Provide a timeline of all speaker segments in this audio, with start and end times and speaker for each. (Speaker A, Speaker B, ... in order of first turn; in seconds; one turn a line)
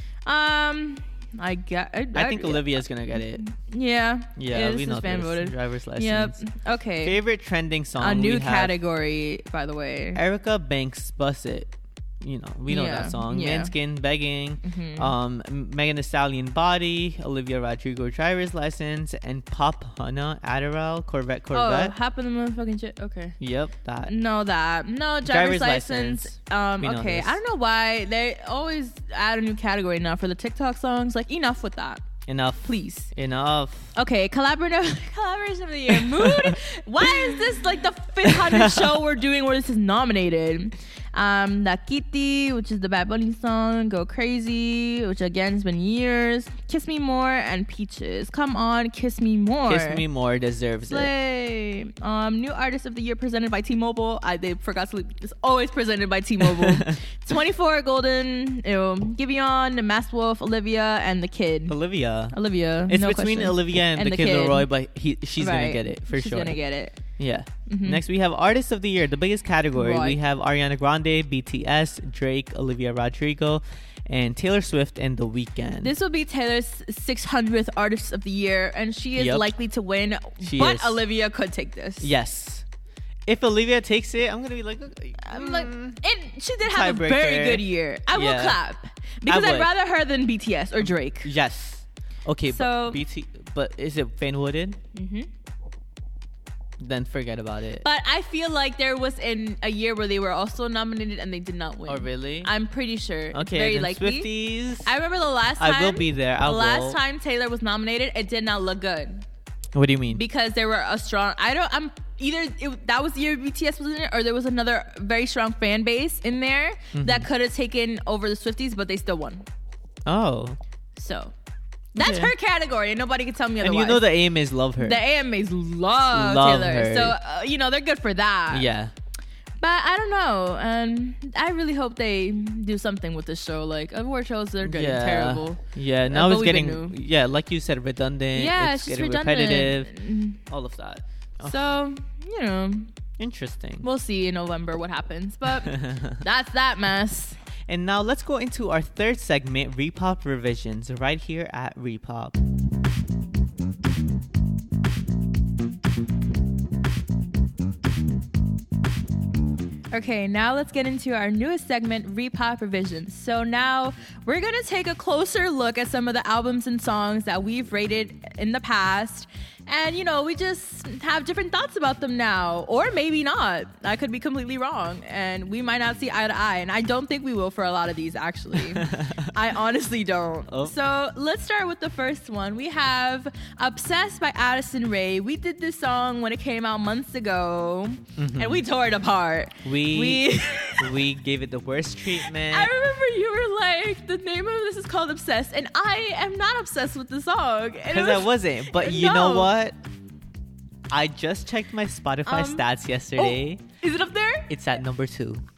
Speaker A: 0.2-7.2
Speaker B: 2.1-3.4
Speaker B: 4.3-6.4
Speaker B: 7.0-8.7
Speaker A: 8.0-10.2
Speaker B: 10.1-21.9
Speaker A: 12.7-13.7
Speaker A: 14.6-15.1
Speaker A: 21.5-23.4
Speaker B: 23.4-24.1
Speaker A: 24.1-32.0
Speaker B: 25.2-27.4
Speaker B: 32.3-33.9
Speaker A: 32.6-33.1
Speaker A: 33.9-50.0
Speaker B: 35.9-37.5
Speaker B: 38.2-39.0
Speaker B: 49.7-51.1
Speaker A: 50.9-61.8
Speaker B: 56.4-57.0
Speaker B: 61.7-62.3
Speaker A: 62.3-64.7
Speaker B: 62.9-66.6
Speaker A: 65.4-67.0
Speaker B: 67.2-75.9
Speaker A: 67.7-68.0
Speaker A: 69.8-70.2
Speaker A: 75.8-82.1
Speaker B: 79.2-79.5
Speaker B: 80.4-81.0
Speaker B: 82.0-82.6
Speaker B: 83.2-86.0
Speaker A: 85.2-91.3
Speaker B: 86.6-88.6
Speaker B: 89.2-89.7
Speaker B: 91.2-94.8
Speaker A: 92.5-93.0
Speaker A: 94.9-95.3
Speaker B: 96.8-97.8
Speaker A: 97.8-109.2
Speaker B: 101.9-102.5
Speaker B: 103.3-104.9
Speaker B: 105.6-107.0
Speaker B: 109.7-110.2
Speaker A: 110.1-119.5
Speaker B: 116.9-117.3
Speaker B: 120.0-120.6
Speaker A: 121.0-121.3
Speaker A: 121.9-124.1
Speaker B: 122.0-122.3
Speaker B: 123.6-125.0
Speaker A: 124.8-128.7
Speaker B: 126.1-127.2
Speaker B: 128.5-128.9
Speaker A: 129.6-136.9
Speaker B: 134.6-139.9
Speaker A: 138.3-140.4
Speaker B: 140.4-141.6
Speaker A: 141.4-142.9
Speaker B: 143.2-143.8
Speaker A: 143.8-147.4
Speaker B: 145.7-146.2
Speaker B: 147.7-152.4
Speaker A: 159.9-191.0
Speaker B: 178.6-179.3
Speaker B: 180.5-180.7
Speaker B: 188.2-188.6
Speaker B: 189.6-192.7
Speaker A: 192.2-199.5
Speaker B: 197.9-199.8
Speaker B: 200.9-203.6
Speaker A: 202.2-204.5
Speaker B: 204.5-205.4